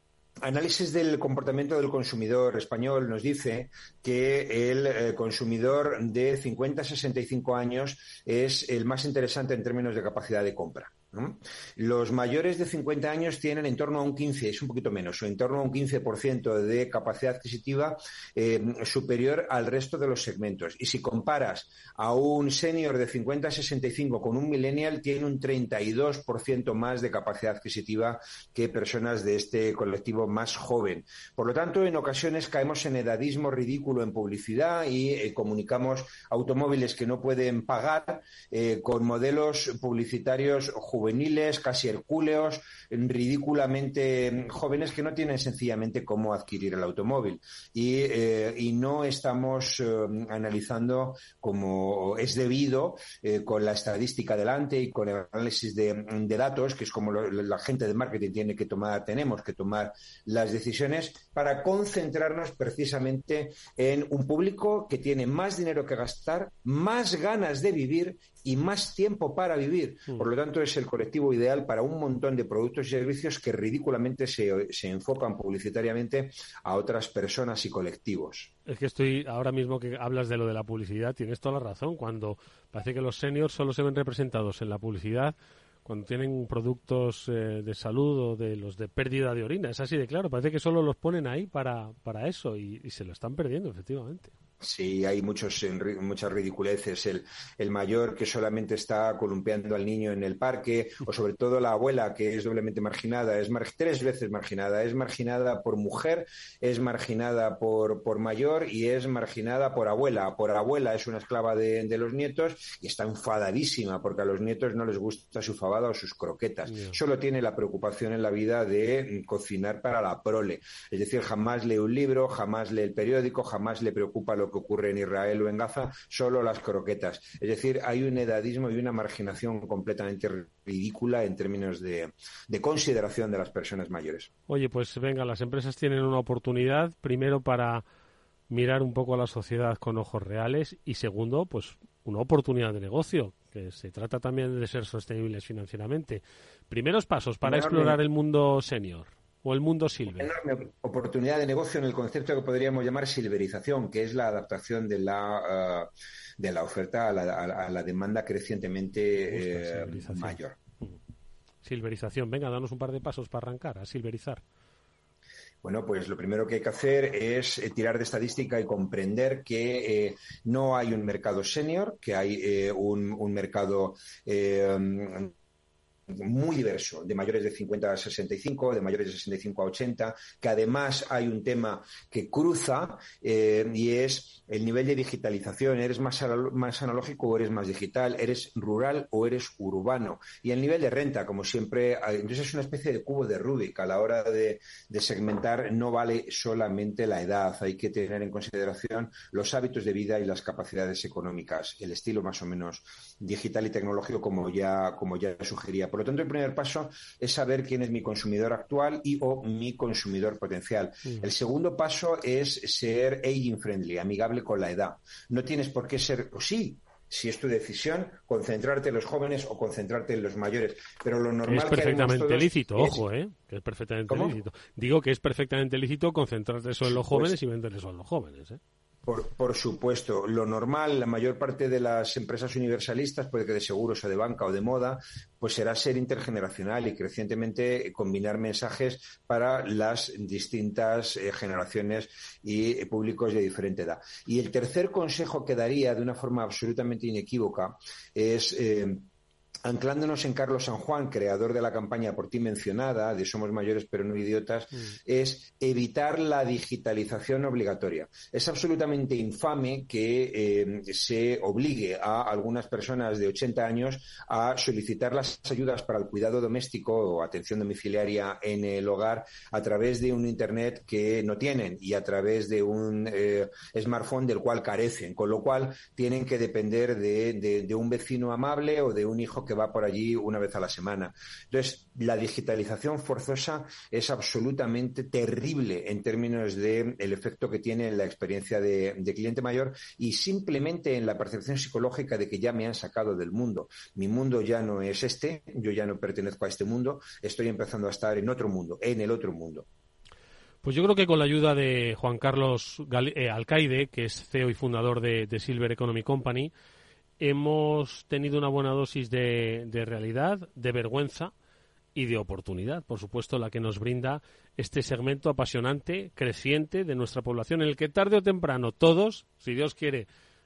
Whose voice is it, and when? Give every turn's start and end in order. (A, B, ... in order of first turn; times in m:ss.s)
0:00.4-1:18.5 A
1:18.9-1:22.2 B
1:22.7-1:25.3 B
1:25.9-1:34.3 B
1:34.6-2:14.3 A
2:14.6-2:17.7 B
2:18.5-2:26.2 B
2:26.7-2:30.3 B
2:27.4-2:28.0 A
2:27.5-2:27.9 C
2:30.1-2:40.6 A
2:39.3-2:40.4 B
2:41.6-2:44.4 B
2:45.6-2:55.3 A
2:56.1-3:43.0 A
3:41.5-3:48.6 B
3:41.7-3:42.3 C
3:44.1-3:44.4 A
3:44.1-3:44.7 C
3:46.8-3:47.4 A
3:49.0-4:09.0 A
4:09.6-4:59.6 A
5:00.7-5:05.8 B
5:05.0-5:06.5 C
5:07.2-5:11.2 C
5:12.0-5:19.5 C
5:12.2-5:13.7 B
5:14.9-5:16.2 B
5:17.4-5:18.0 B
5:19.2-5:19.9 B